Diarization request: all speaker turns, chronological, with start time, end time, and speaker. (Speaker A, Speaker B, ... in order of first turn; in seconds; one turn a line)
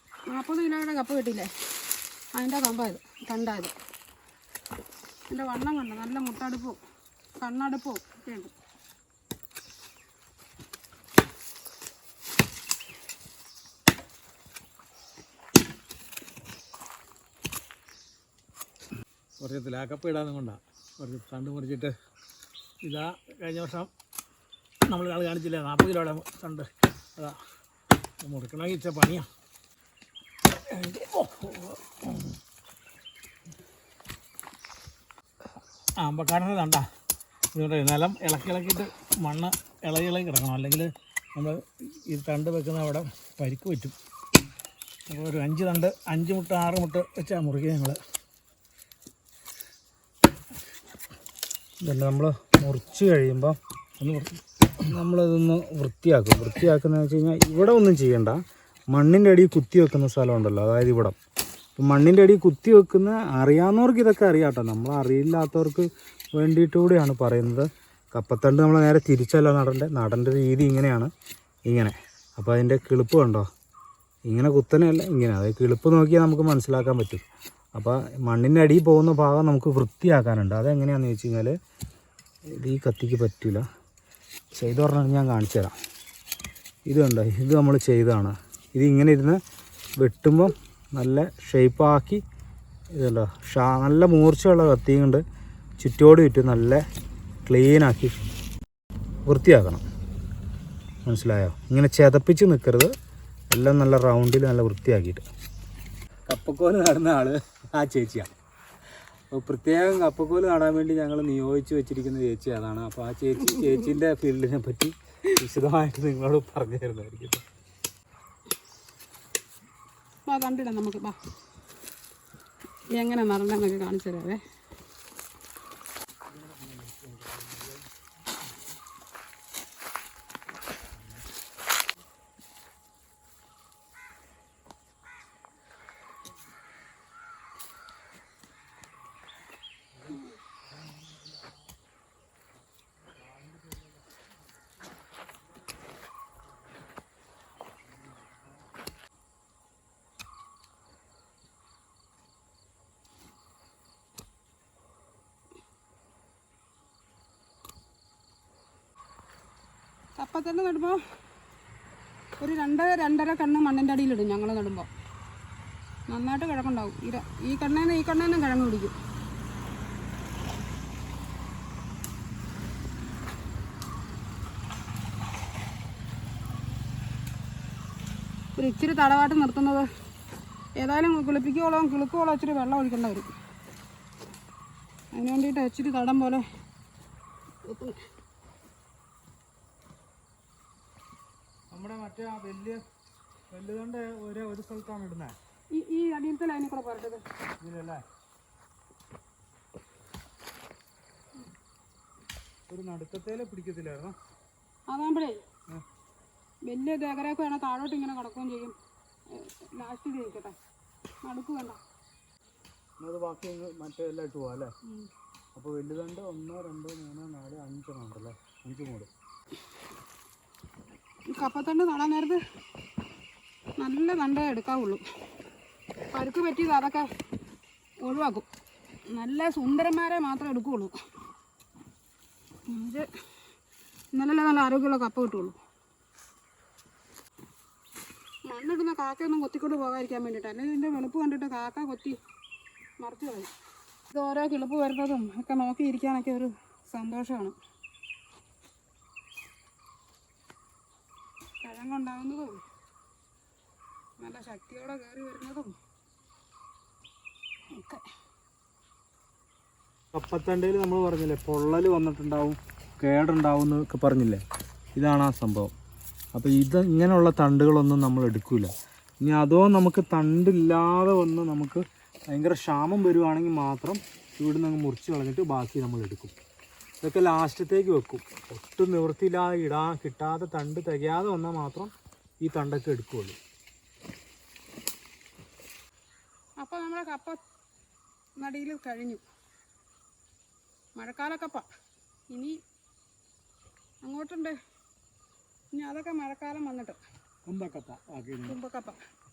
Speaker A: 0.3-1.5
Speaker A: 2.3-3.7
Speaker A: 5.3-6.8
Speaker A: 7.4-8.5
Speaker B: 19.4-21.9
Speaker B: 22.8-23.9
Speaker B: 24.9-27.4
Speaker B: 28.2-29.3
Speaker B: 30.7-32.4
Speaker B: 36.0-36.8
Speaker B: 37.5-44.0
Speaker B: 45.1-48.0
Speaker C: 51.8-53.6
Speaker B: 54.0-54.4
Speaker C: 54.9-61.2
Speaker C: 61.8-71.1
Speaker C: 71.7-73.5
Speaker C: 74.3-81.5
Speaker C: 82.5-83.7
Speaker C: 84.5-85.8
Speaker C: 86.9-89.4
Speaker C: 90.0-92.2
Speaker C: 92.9-95.2
Speaker C: 95.8-96.8
Speaker C: 97.5-98.3
Speaker C: 99.3-99.8
Speaker C: 101.0-102.9
Speaker C: 103.5-105.3
Speaker C: 106.3-108.3
Speaker C: 109.3-117.4
Speaker A: 120.3-121.2
Speaker A: 123.0-124.4
Speaker B: 126.3-127.5
Speaker C: 143.3-143.8
Speaker A: 160.2-161.0
Speaker A: 162.4-164.9
Speaker A: 166.1-168.9
Speaker A: 178.6-179.9
Speaker A: 180.8-183.3
Speaker A: 185.1-186.4
Speaker A: 187.6-188.0
Speaker C: 191.7-192.8
Speaker C: 193.5-195.4
Speaker A: 195.7-197.2
Speaker C: 197.6-198.0
Speaker C: 202.7-204.1
Speaker A: 204.9-205.4
Speaker A: 206.7-208.8
Speaker A: 209.3-210.6
Speaker A: 211.2-211.8
Speaker C: 213.0-214.7
Speaker C: 215.6-219.1
Speaker A: 221.3-222.4
Speaker A: 223.8-225.0
Speaker A: 226.1-227.1
Speaker A: 228.0-228.5
Speaker A: 229.1-230.9
Speaker A: 232.7-233.1
Speaker A: 234.1-235.6
Speaker A: 238.4-242.2
Speaker A: 243.0-243.5
Speaker A: 244.1-247.6
Speaker A: 251.6-252.6
Speaker A: 254.2-255.7
Speaker A: 257.7-258.0
Speaker C: 260.1-264.4
Speaker C: 264.9-265.7
Speaker C: 266.3-276.3
Speaker C: 277.0-283.4
Speaker A: 286.6-287.4
Speaker A: 288.4-289.2
Speaker A: 291.0-291.7
Speaker A: 292.3-292.6
Speaker A: 294.0-294.6
Speaker A: 295.7-297.0
Speaker B: 297.4-298.6
Speaker A: 298.5-299.0